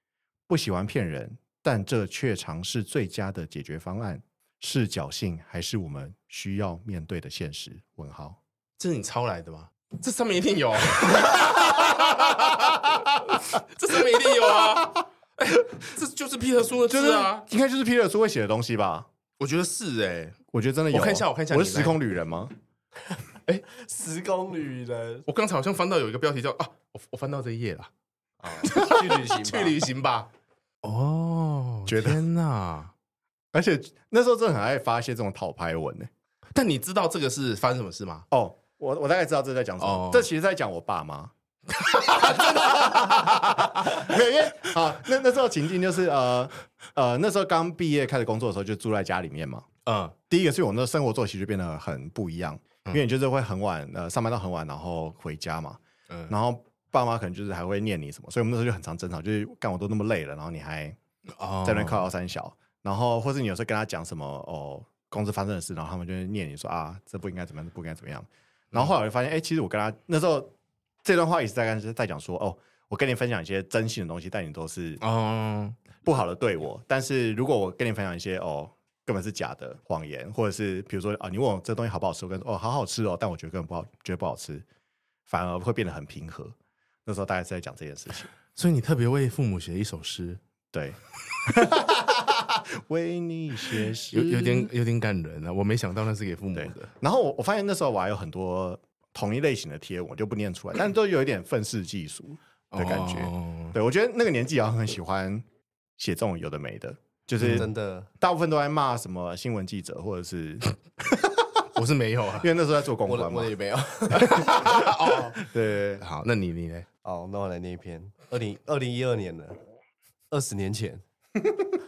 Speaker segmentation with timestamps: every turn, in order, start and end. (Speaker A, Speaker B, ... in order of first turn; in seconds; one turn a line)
Speaker A: 0.5-8.4
Speaker B: 8.8-17.4
Speaker A: 11.3-13.6
Speaker A: 14.7-14.9
Speaker A: 16.9-19.1
Speaker B: 19.4-20.4
Speaker A: 20.5-22.5
Speaker B: 20.9-22.0
Speaker C: 23.7-25.3
Speaker B: 25.3-27.9
Speaker C: 28.4-29.8
Speaker B: 28.6-30.3
Speaker B: 30.8-32.9
Speaker A: 31.9-32.2
Speaker A: 33.5-36.1
Speaker B: 36.5-38.3
Speaker A: 38.3-41.3
Speaker B: 39.8-40.3
Speaker B: 41.8-44.0
Speaker A: 42.2-49.7
Speaker B: 49.9-50.1
Speaker A: 50.3-61.0
Speaker B: 61.4-62.0
Speaker A: 61.6-70.5
Speaker A: 71.0-75.0
Speaker B: 75.0-75.8
Speaker A: 76.0-84.7
Speaker A: 85.3-86.5
Speaker A: 87.1-88.3
Speaker B: 88.5-90.4
Speaker A: 90.7-94.7
Speaker B: 94.1-96.9
Speaker A: 96.5-105.4
Speaker B: 102.7-103.8
Speaker A: 106.0-111.3
Speaker C: 107.4-108.1
Speaker B: 111.8-112.5
Speaker A: 112.4-113.5
Speaker C: 113.1-114.6
Speaker B: 114.1-115.5
Speaker A: 114.1-116.0
Speaker B: 116.0-116.9
Speaker C: 117.0-119.6
Speaker C: 120.3-121.0